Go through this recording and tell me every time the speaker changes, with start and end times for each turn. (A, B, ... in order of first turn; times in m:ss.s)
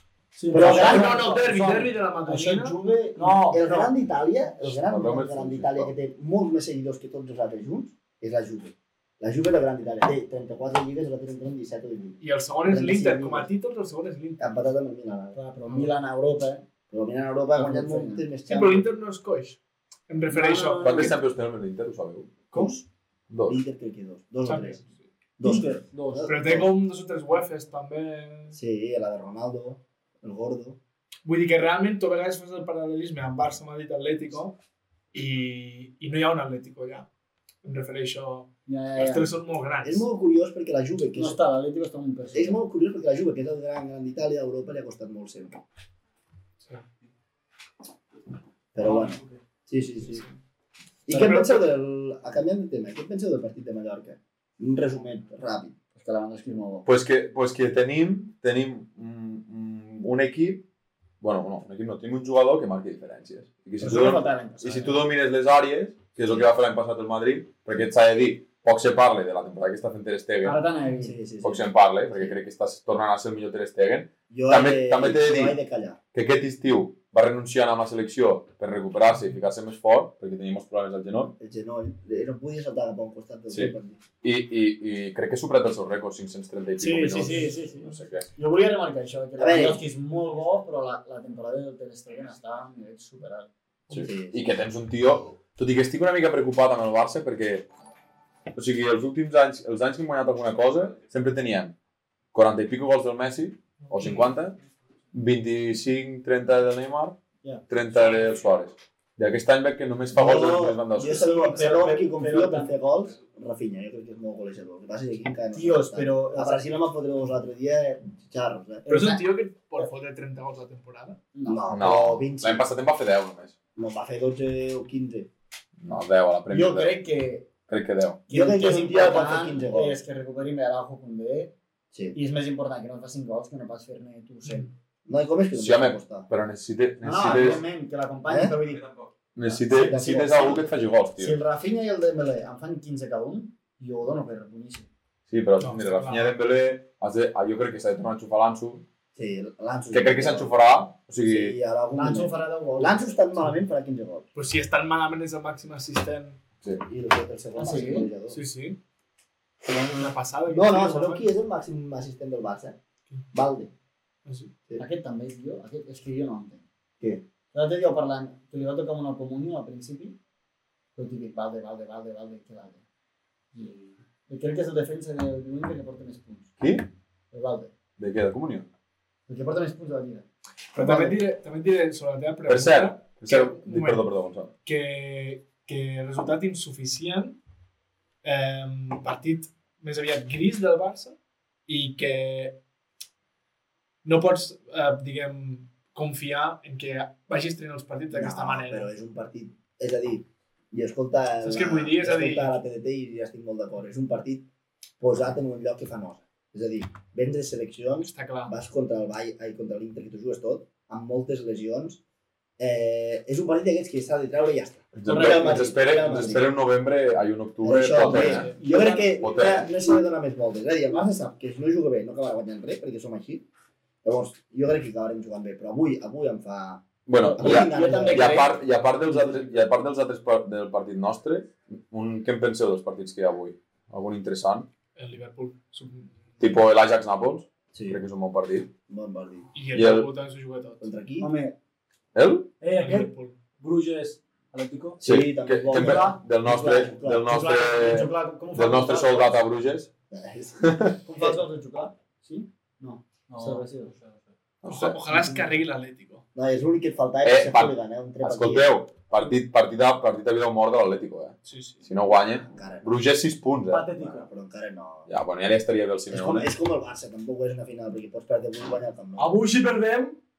0:00.3-0:03.9 A
0:00.5-0:01.3 B
0:00.5-0:02.8 C
0:03.2-0:13.5 B
0:04.6-0:05.9 D
0:12.2-0:14.6 C
0:14.4-0:15.4 B
0:15.3-0:16.6 E
0:16.9-0:18.8 B
0:17.5-0:18.2 E
0:18.5-0:21.1 C
0:20.3-0:21.1 A
0:20.8-0:22.6 D
0:22.5-0:22.8 B
0:23.3-0:23.6 D
0:23.5-0:24.8 B
0:24.4-0:25.0 C
0:25.4-0:26.7 B
0:25.4-0:26.3 A
0:26.2-0:28.6 C
0:28.5-0:30.8 B
0:31.2-0:34.6 C
0:35.1-0:37.1 C
0:37.6-0:40.0 C
0:38.7-0:39.3 E
0:39.8-0:41.4 B
0:41.2-0:42.6 E
0:42.3-0:45.6 B
0:46.6-0:46.8 C
0:48.7-0:50.2 B
0:48.8-0:49.4 A
0:51.1-0:55.8 B
0:51.1-0:51.6 C
0:55.9-0:56.8 E
0:56.8-1:00.6 D
1:01.2-1:10.6 D
1:03.8-1:05.0 E
1:10.4-1:11.2 E
1:11.0-1:12.4 B
1:11.4-1:15.6 D
1:14.3-1:16.0 B
1:16.1-1:21.3 D
1:21.4-1:24.0 B
1:23.5-1:28.3 D
1:26.8-1:33.5 E
1:29.4-1:29.8 B
1:33.9-1:37.7 D
1:33.9-1:34.4 B
1:38.5-1:41.7 D
1:42.3-1:44.6 D
1:45.1-1:47.2 D
1:47.7-1:51.5 D
1:50.1-1:58.8 B
1:51.0-1:52.7 E
1:55.5-1:56.7 E
1:58.8-1:59.2 E
1:58.8-2:01.2 C
2:01.3-2:01.6 E
2:01.4-2:02.6 B
2:01.7-2:03.5 D
2:03.8-2:05.3 B
2:05.8-2:07.0 D
2:06.5-2:07.5 E
2:07.7-2:08.2 D
2:08.3-2:11.5 E
2:08.3-2:10.0 B
2:12.1-2:14.7 E
2:15.0-2:16.3 B
2:15.5-2:17.6 D
2:17.0-2:18.9 E
2:18.3-2:18.6 B
2:19.3-2:21.4 D
2:19.7-2:20.7 B
2:19.7-2:20.5 E
2:21.2-2:24.9 E
2:25.3-2:28.8 D
2:25.6-2:26.3 C
2:29.2-2:30.5 B
2:29.9-2:31.6 D
2:31.2-2:34.2 B
2:31.9-2:33.5 E
2:34.3-2:36.4 C
2:36.8-2:38.4 B
2:37.6-2:38.1 E
2:38.3-2:38.8 C
2:39.7-2:41.3 C
2:40.5-2:42.8 B
2:43.3-2:43.7 B
2:44.2-2:44.5 C
2:44.8-2:46.6 E
2:47.5-2:50.2 E
2:51.0-2:52.8 E
2:53.5-2:56.5 E
2:56.6-2:56.8 D
2:57.3-2:57.7 E
2:58.0-2:58.7 D
2:59.3-3:00.2 E
3:00.7-3:04.1 C
3:00.8-3:01.1 E
3:02.5-3:04.5 D
3:04.6-3:07.4 C
3:08.2-3:12.6 C
3:14.0-3:18.9 C
3:18.1-3:24.5 B
3:21.4-3:22.6 C
3:25.0-3:32.0 B
3:28.0-3:28.5 C
3:32.6-3:36.5 B
3:34.9-3:38.5 D
3:35.1-3:36.3 A
3:37.6-3:43.4 B
3:38.0-3:38.6 C
3:38.6-3:39.0 E
3:39.2-3:39.7 D
3:44.0-3:48.5 B
3:47.0-3:54.7 D
3:47.3-3:48.5 E
3:55.0-3:56.1 C
3:56.4-3:58.7 D
3:57.7-3:58.0 B
3:58.9-3:59.4 B
3:59.5-4:00.9 C
3:59.7-4:00.1 D
4:00.8-4:01.3 B
4:01.2-4:01.6 E
4:02.1-4:02.5 D
4:02.6-4:05.0 A
4:02.8-4:03.4 C
4:05.0-4:07.3 B
4:05.0-4:09.9 D
4:05.7-4:09.4 E
4:10.1-4:11.4 B
4:10.6-4:11.0 D
4:11.0-4:13.9 E
4:13.3-4:14.3 A
4:14.6-4:15.0 D
4:14.6-4:16.2 C
4:15.2-4:15.4 A
4:16.3-4:18.8 B
4:17.2-4:23.9 D
4:21.4-4:21.8 C
4:22.4-4:22.9 B
4:23.7-4:24.3 A
4:23.9-4:25.1 B
4:25.1-4:26.5 D
4:26.1-4:29.4 B
4:29.2-4:30.2 A